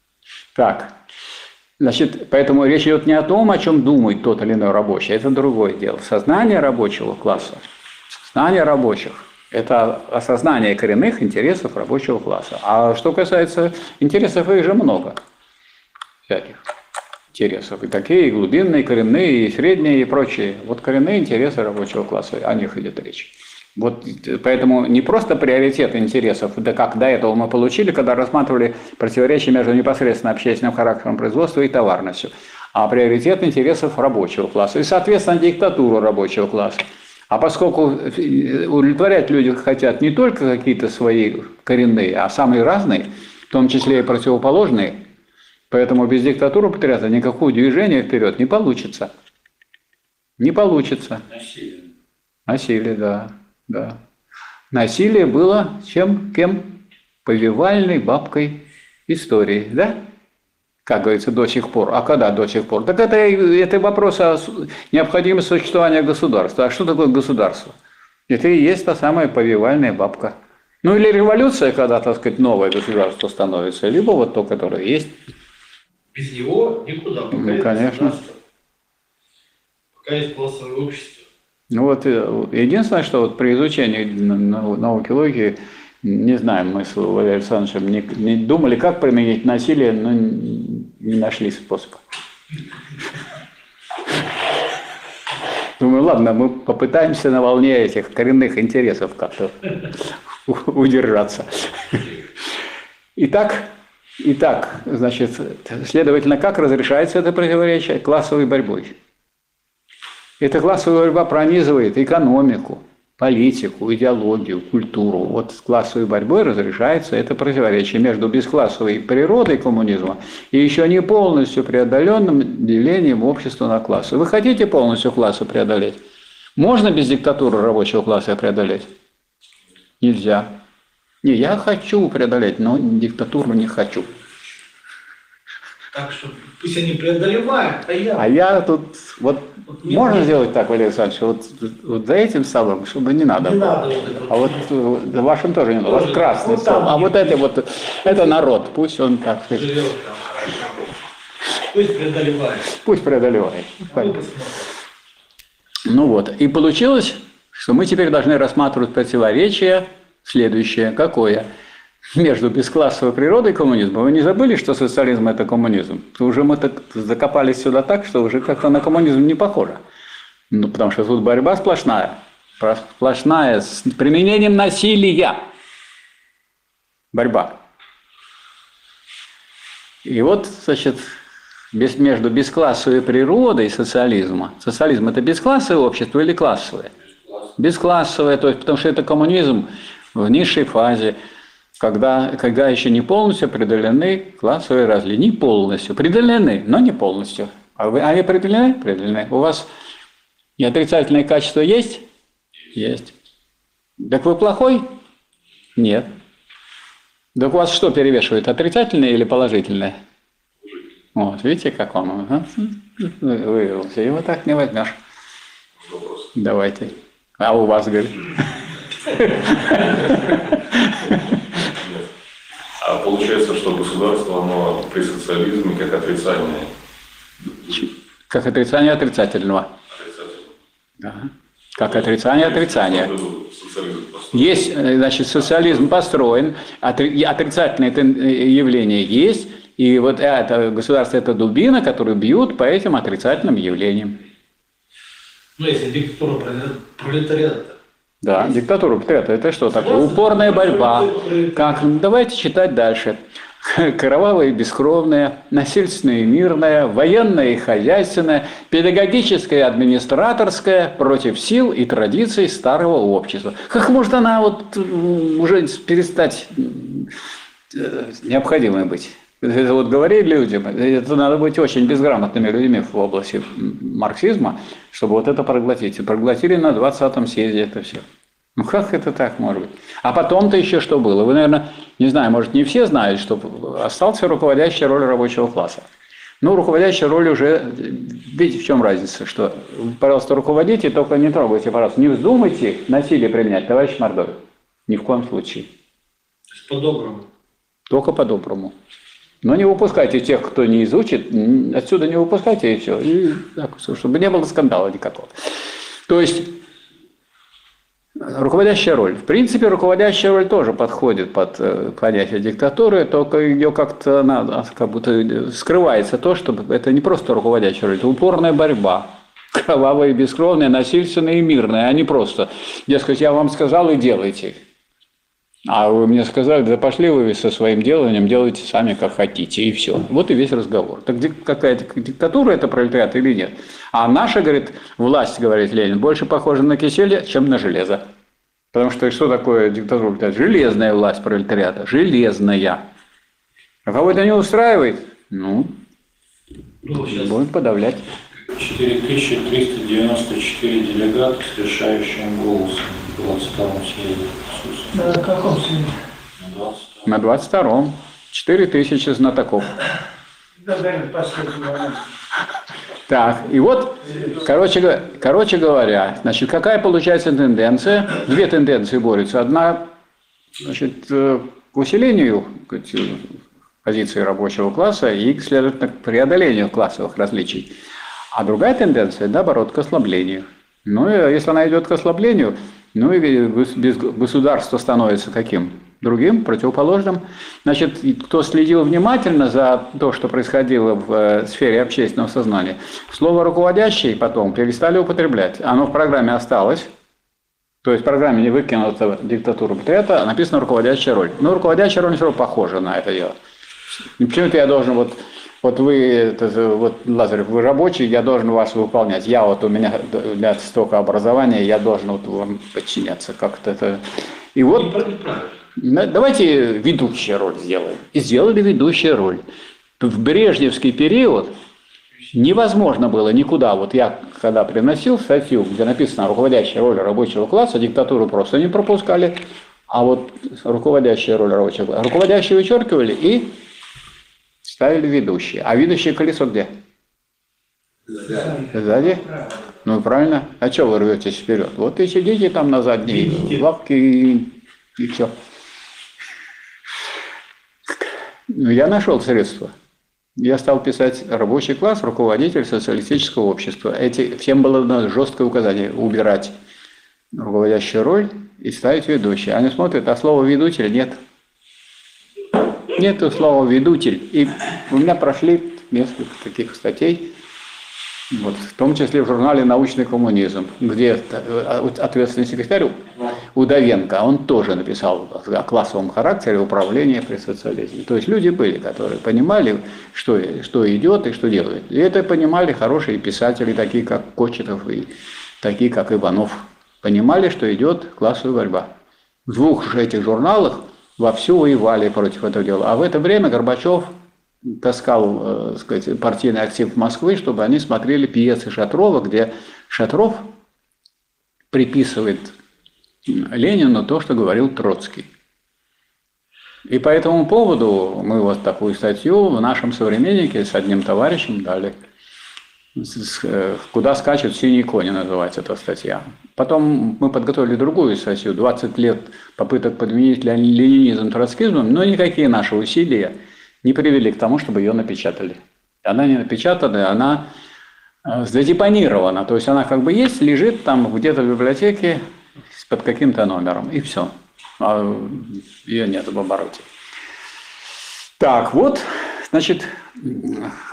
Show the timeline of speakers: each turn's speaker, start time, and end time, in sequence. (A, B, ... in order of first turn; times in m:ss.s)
0:00.5-0:01.0 A
0:01.8-0:07.6 A
0:08.2-0:15.2 A
0:16.3-0:16.6 A
0:17.3-0:45.0 A
0:45.7-0:49.1 A
0:50.4-0:51.2 A
0:51.3-0:51.8 B
0:52.5-0:54.0 A
0:54.7-1:00.0 A
1:00.8-1:07.7 A
1:08.3-1:15.1 A
1:16.1-1:18.3 C
1:17.3-1:18.1 A
1:20.0-1:21.2 C
1:21.7-1:32.0 A
1:35.8-1:42.2 A
1:43.2-1:49.0 A
1:50.4-2:06.0 A
2:06.6-2:08.9 A
2:10.0-2:10.5 A
2:11.2-2:14.1 A
2:15.9-2:18.2 C
2:18.2-2:29.8 A
2:19.8-2:20.2 C
2:23.4-2:24.6 C
2:25.8-2:27.4 C
2:29.5-2:30.9 C
2:31.7-2:32.7 C
2:32.7-2:34.1 A
2:33.9-2:34.7 C
2:35.9-2:41.4 A
2:42.1-2:49.8 A
2:50.5-2:55.4 A
2:57.1-2:57.6 A
3:00.0-3:01.1 A
3:01.7-3:06.9 A
3:07.6-3:11.2 A
3:11.8-3:19.7 A
3:20.6-3:22.0 A
3:22.7-3:23.1 A
3:24.0-3:24.9 A
3:25.8-3:26.1 A
3:27.3-3:29.9 A
3:31.1-3:35.0 A
3:35.8-3:36.2 D
3:36.3-3:41.4 A
3:41.7-3:42.0 D
3:42.8-3:46.7 D
3:47.7-3:49.7 A
3:49.9-3:50.5 D
3:51.0-3:53.1 A
3:51.9-3:54.6 D
3:54.3-4:04.2 A
4:05.6-4:07.8 C
4:08.2-4:27.1 A
4:09.8-4:11.8 C
4:27.7-4:45.8 A
4:46.4-4:55.7 A
4:56.6-4:57.3 C
4:57.9-4:58.7 A
4:59.4-5:05.3 A
5:06.1-5:06.6 A
5:08.2-5:24.6 A
5:25.7-5:38.0 A
5:38.7-5:42.8 A
5:43.8-5:45.8 A
5:46.8-5:47.3 C
5:47.0-5:48.1 A
5:48.5-5:55.1 B
5:54.9-5:56.0 E
5:56.4-5:57.1 B
5:57.0-5:59.7 A
6:00.6-6:02.0 E
6:03.1-6:09.9 A
6:10.6-6:17.8 A
6:18.3-6:36.9 A
6:37.8-6:43.3 A
6:44.2-6:55.0 A
6:54.7-6:55.5 C
6:55.8-6:59.4 A
7:00.0-7:01.5 A
7:02.3-7:13.5 A
7:14.6-7:16.7 A
7:18.5-7:19.3 A
7:19.8-7:25.3 A
7:27.9-7:29.7 A
7:30.4-7:36.5 A
7:37.3-7:41.2 A
7:42.9-7:47.3 A
7:48.3-8:08.9 A
8:09.5-8:14.1 A
8:14.6-8:20.5 A
8:21.7-8:22.6 A
8:23.2-8:25.3 A
8:26.9-8:32.0 A
8:33.0-8:47.5 A
8:48.2-8:56.8 A
8:58.4-9:00.8 A